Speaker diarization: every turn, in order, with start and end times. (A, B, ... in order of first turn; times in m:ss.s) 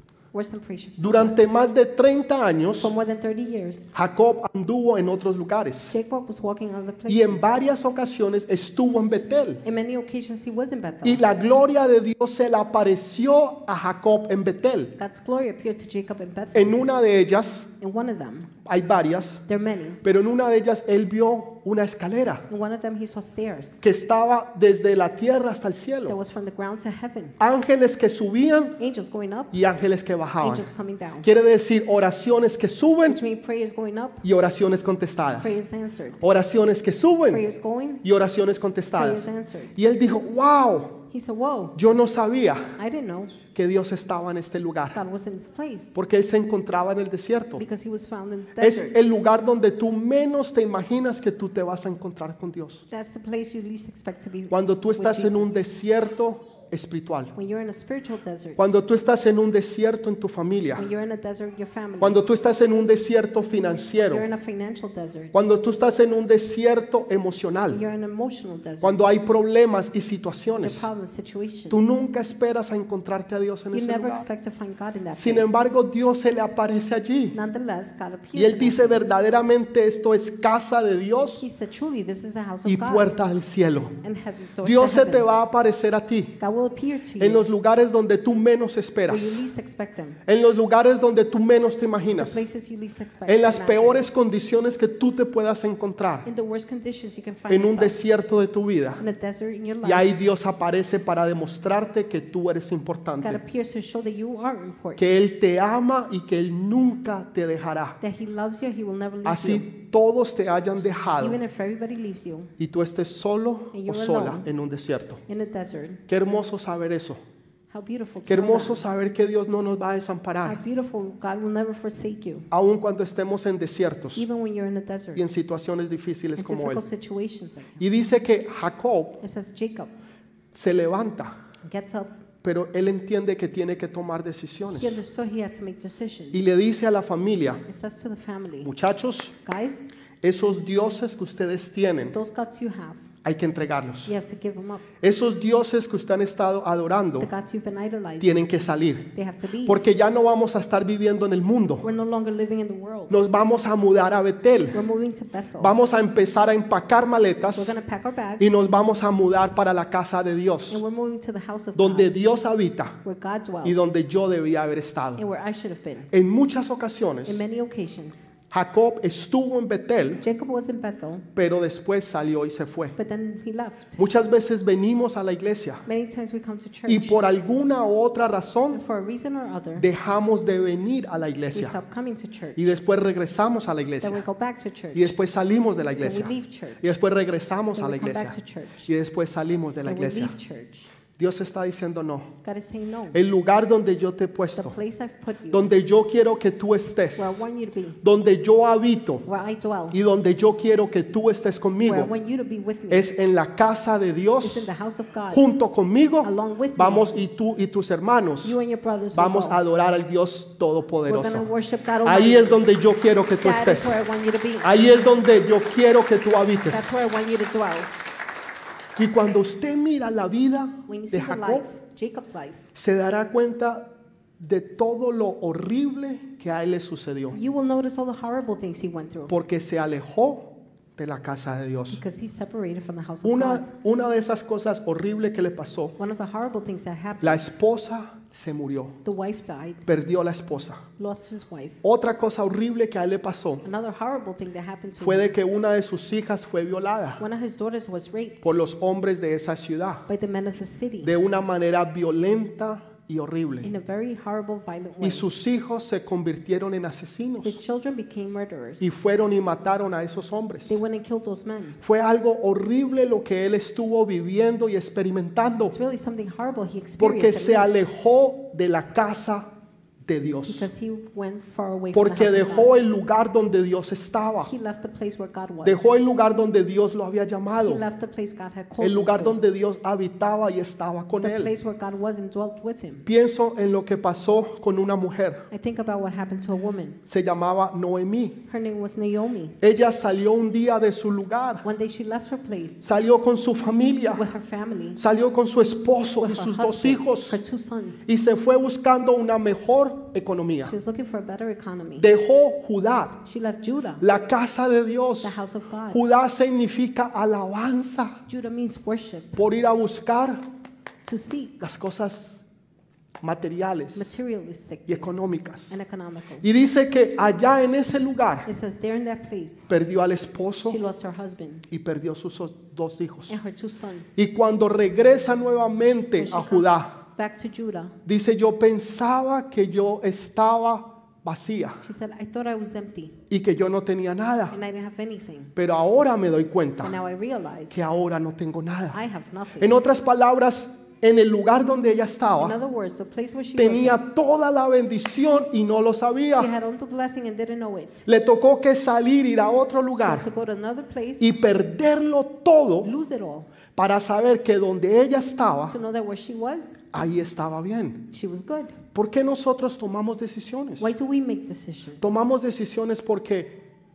0:00.3-0:01.4 A
0:01.0-0:02.9 B
0:02.8-0:03.9 A
0:03.9-0:05.9 B
0:05.9-0:07.7 A
0:07.1-0:09.6 B
0:09.6-0:11.2 A
0:11.0-0:15.0 B
0:15.0-0:16.8 A
0:16.5-0:17.7 B
0:17.8-0:18.5 A
0:18.6-0:19.4 B
0:19.5-0:20.0 A
0:20.0-0:22.5 B
0:22.5-0:23.8 A
0:23.8-0:26.2 B
0:26.1-0:27.4 A
0:27.4-0:28.8 B
0:28.8-0:29.6 A
0:29.5-0:30.7 B
0:30.4-0:31.3 A
0:31.2-0:33.2 B
0:33.1-0:34.2 A
0:34.2-0:35.6 B
0:35.4-0:36.2 A
0:36.2-0:37.4 B
0:37.3-0:38.0 A
0:38.0-0:41.0 B
0:38.9-0:39.7 A
0:41.1-0:41.8 A
0:41.7-0:42.8 B
0:42.8-0:43.4 A
0:43.5-0:45.0 B
0:44.9-0:46.0 A
0:45.9-0:47.6 B
0:47.6-0:49.0 A
0:48.6-0:52.8 B
0:52.9-0:55.6 A
0:54.5-0:57.3 B
0:57.3-0:58.7 A
0:58.6-1:00.8 B
1:00.8-1:02.2 A
1:02.0-1:04.2 B
1:03.9-1:05.5 A
1:05.3-1:07.8 B
1:07.7-1:09.0 A
1:08.8-1:10.8 B
1:10.5-1:11.9 A
1:11.7-1:14.2 B
1:13.7-1:15.5 A
1:15.1-1:17.4 B
1:17.3-1:19.1 A
1:18.3-1:21.4 B
1:21.2-1:23.1 A
1:22.6-1:24.0 B
1:24.0-1:25.3 A
1:24.6-1:26.4 B
1:26.4-1:27.4 A
1:27.2-1:29.4 B
1:29.1-1:30.2 A
1:30.2-1:32.4 B
1:32.2-1:34.1 A
1:33.3-1:36.3 B
1:36.2-1:38.0 A
1:37.5-1:39.0 B
1:39.0-1:40.1 A
1:39.8-1:43.4 B
1:43.2-1:45.0 A
1:45.0-1:48.0 B
1:48.0-1:49.7 A
1:49.2-1:51.4 B
1:51.2-1:52.5 A
1:52.6-1:55.2 B
1:53.7-1:54.5 A
1:55.3-1:56.0 A
1:56.1-1:57.2 B
1:57.7-1:58.8 A
1:58.3-2:00.6 B
2:00.4-2:02.5 A
2:02.5-2:04.2 B
2:04.2-2:05.2 A
2:05.1-2:06.8 B
2:06.4-2:07.8 A
2:07.8-2:09.2 B
2:09.2-2:09.9 A
2:10.5-2:11.4 B
2:11.6-2:12.1 A
2:12.4-2:15.0 B
2:14.7-2:16.5 A
2:16.3-2:17.6 B
2:17.7-2:18.7 A
2:18.6-2:19.3 B
2:19.4-2:19.8 A
2:20.2-2:22.2 B
2:22.1-2:23.0 A
2:23.2-2:24.1 B
2:24.0-2:24.9 A
2:25.0-2:27.3 B
2:27.2-2:28.4 A
2:28.2-2:29.1 B
2:29.1-2:29.8 A
2:29.6-2:31.8 B
2:31.8-2:33.2 A
2:33.1-2:34.8 B
2:34.7-2:35.7 A
2:35.6-2:37.8 B
2:37.6-2:38.6 A
2:38.4-2:40.8 B
2:40.7-2:42.1 A
2:41.7-2:43.0 B
2:43.0-2:43.9 A
2:43.6-2:45.2 B
2:45.2-2:46.1 A
2:46.1-2:47.4 B
2:47.2-2:48.3 A
2:48.5-2:50.2 B
2:50.2-2:51.3 A
2:51.3-2:53.0 B
2:53.0-2:54.0 A
2:54.0-2:55.8 B
2:55.8-2:57.2 A
2:56.9-2:58.8 B
2:58.7-2:59.9 A
2:59.8-3:01.8 B
3:01.5-3:02.7 A
3:02.6-3:04.2 B
3:04.0-3:05.2 A
3:04.9-3:10.3 B
3:06.0-3:06.9 A
3:07.7-3:08.9 A
3:09.8-3:10.9 A
3:11.2-3:12.3 B
3:12.4-3:13.2 A
3:13.1-3:14.8 B
3:14.6-3:15.7 A
3:15.5-3:17.4 B
3:17.2-3:18.0 A
3:18.0-3:19.2 B
3:19.2-3:20.0 A
3:19.9-3:22.1 B
3:21.8-3:23.1 A
3:22.9-3:24.7 B
3:24.4-3:25.4 A
3:25.3-3:28.6 B
3:26.2-3:27.1 A
3:28.4-3:29.6 A
3:29.1-3:31.5 B
3:31.1-3:32.7 A
3:32.0-3:34.0 B
3:33.4-3:34.8 A
3:34.6-3:36.9 B
3:36.6-3:37.9 A
3:39.0-3:41.6 B
3:40.9-3:42.6 A
3:42.7-3:47.4 B
3:47.3-3:49.3 A
3:49.3-3:52.0 B
3:51.9-3:53.7 A
3:53.2-3:56.0 B
3:56.0-3:57.5 A
3:57.2-3:59.0 B
3:59.0-3:59.8 A
3:59.9-4:00.8 B
4:01.0-4:01.8 A
4:01.8-4:03.6 B
4:03.6-4:05.3 A
4:05.0-4:07.2 B
4:07.2-4:08.6 A
4:08.4-4:10.0 B
4:10.1-4:11.1 A
4:11.0-4:13.7 B
4:13.6-4:15.3 A
4:15.0-4:17.6 B
4:17.4-4:18.9 A
4:18.8-4:20.8 B
4:20.7-4:21.8 A
4:21.8-4:25.8 B
4:25.7-4:27.8 A
4:27.0-4:29.5 B
4:30.0-4:30.7 B
4:30.5-4:32.8 A
4:31.9-4:34.5 B
4:34.4-4:35.9 A
4:35.6-4:37.8 B
4:37.6-4:39.4 A
4:38.8-4:41.5 B
4:41.2-4:43.0 A
4:43.0-4:45.4 B
4:45.5-4:47.0 A
4:47.1-4:48.4 B
4:48.4-4:49.6 A
4:49.6-4:51.6 B
4:51.6-4:52.8 A
4:52.8-4:54.2 B
4:54.1-4:55.0 A
4:55.0-4:57.4 B
4:56.2-4:58.1 A
4:58.1-5:00.7 B
5:00.6-5:02.1 A
5:02.0-5:03.2 B
5:03.2-5:04.0 A
5:04.0-5:05.4 B
5:05.2-5:06.0 A
5:05.9-5:08.2 B
5:08.3-5:09.4 A
5:09.4-5:10.4 B
5:11.0-5:11.6 A
5:11.6-5:12.4 B
5:13.2-5:14.1 B
5:13.9-5:16.4 A
5:14.9-5:15.8 B
5:16.4-5:18.5 B
5:18.4-5:19.6 A
5:19.7-5:20.8 B
5:20.6-5:21.7 A
5:21.7-5:23.4 B
5:23.3-5:24.2 A
5:24.2-5:27.0 B
5:26.1-5:28.0 A
5:28.0-5:31.8 B
5:31.8-5:33.2 A
5:33.3-5:34.6 B
5:34.5-5:35.5 A
5:35.6-5:36.9 B
5:36.8-5:37.8 A
5:37.7-5:39.0 B
5:38.9-5:39.8 A
5:39.6-5:42.6 B
5:42.3-5:44.0 A
5:43.6-5:46.5 B
5:46.3-5:48.0 A
5:48.0-5:50.3 B
5:49.9-5:51.3 A
5:51.2-5:52.9 B
5:52.8-5:53.5 A
5:53.7-5:55.8 B
5:55.7-5:56.9 A
5:56.9-5:58.1 B
5:58.1-5:58.8 A
5:58.9-6:00.9 B
6:00.8-6:02.1 A
6:02.0-6:03.6 B